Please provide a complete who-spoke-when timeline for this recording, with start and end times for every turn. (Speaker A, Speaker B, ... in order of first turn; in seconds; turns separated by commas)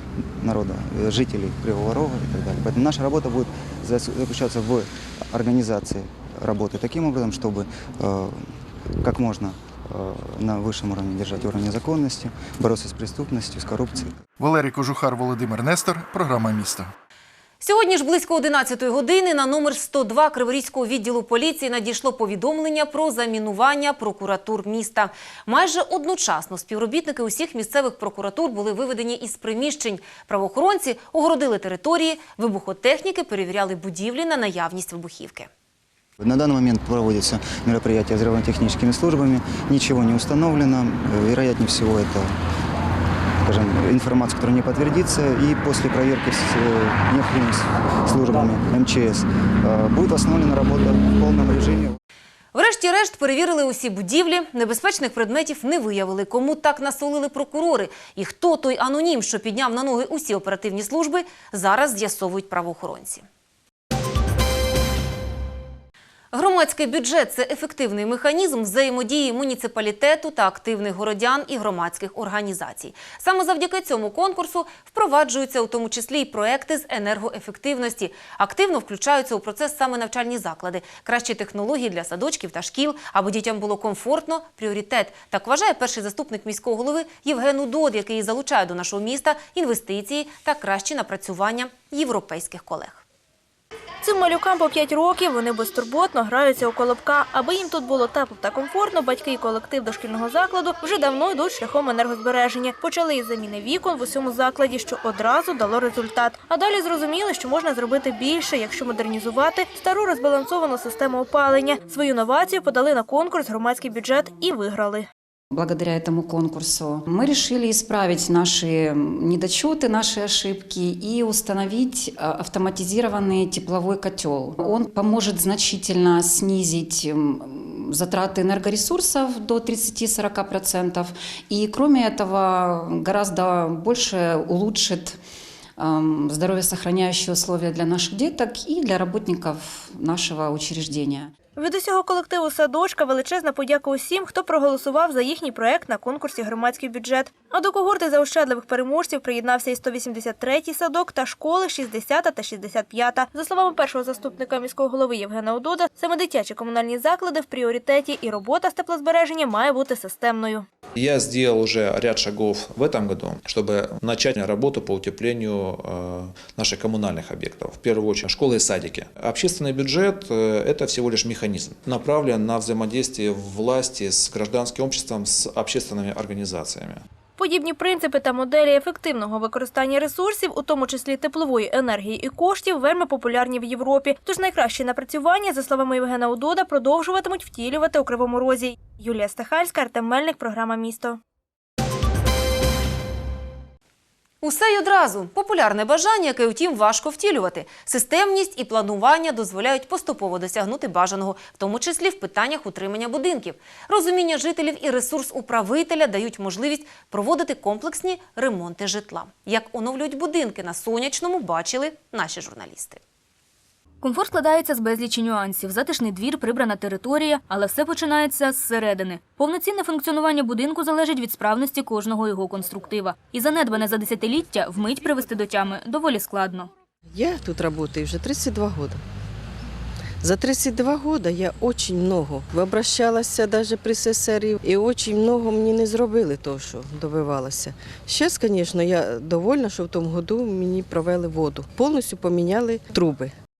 Speaker A: 0.2-14.2, Speaker B: 14.4-16.9, Speaker C: 17.6-35.5, Speaker A: 36.2-42.3, Speaker A: 43.4-52.0, Speaker C: 52.5-63.2, Speaker C: 66.3-93.0, Speaker D: 94.0-115.1, Speaker E: 115.5-135.2, Speaker E: 135.8-141.3, Speaker D: 141.6-160.7, Speaker F: 160.9-177.0, Speaker D: 177.4-191.2, Speaker C: 194.4-213.0, Speaker G: 214.0-226.7, Speaker H: 227.1-229.0, Speaker H: 230.2-243.3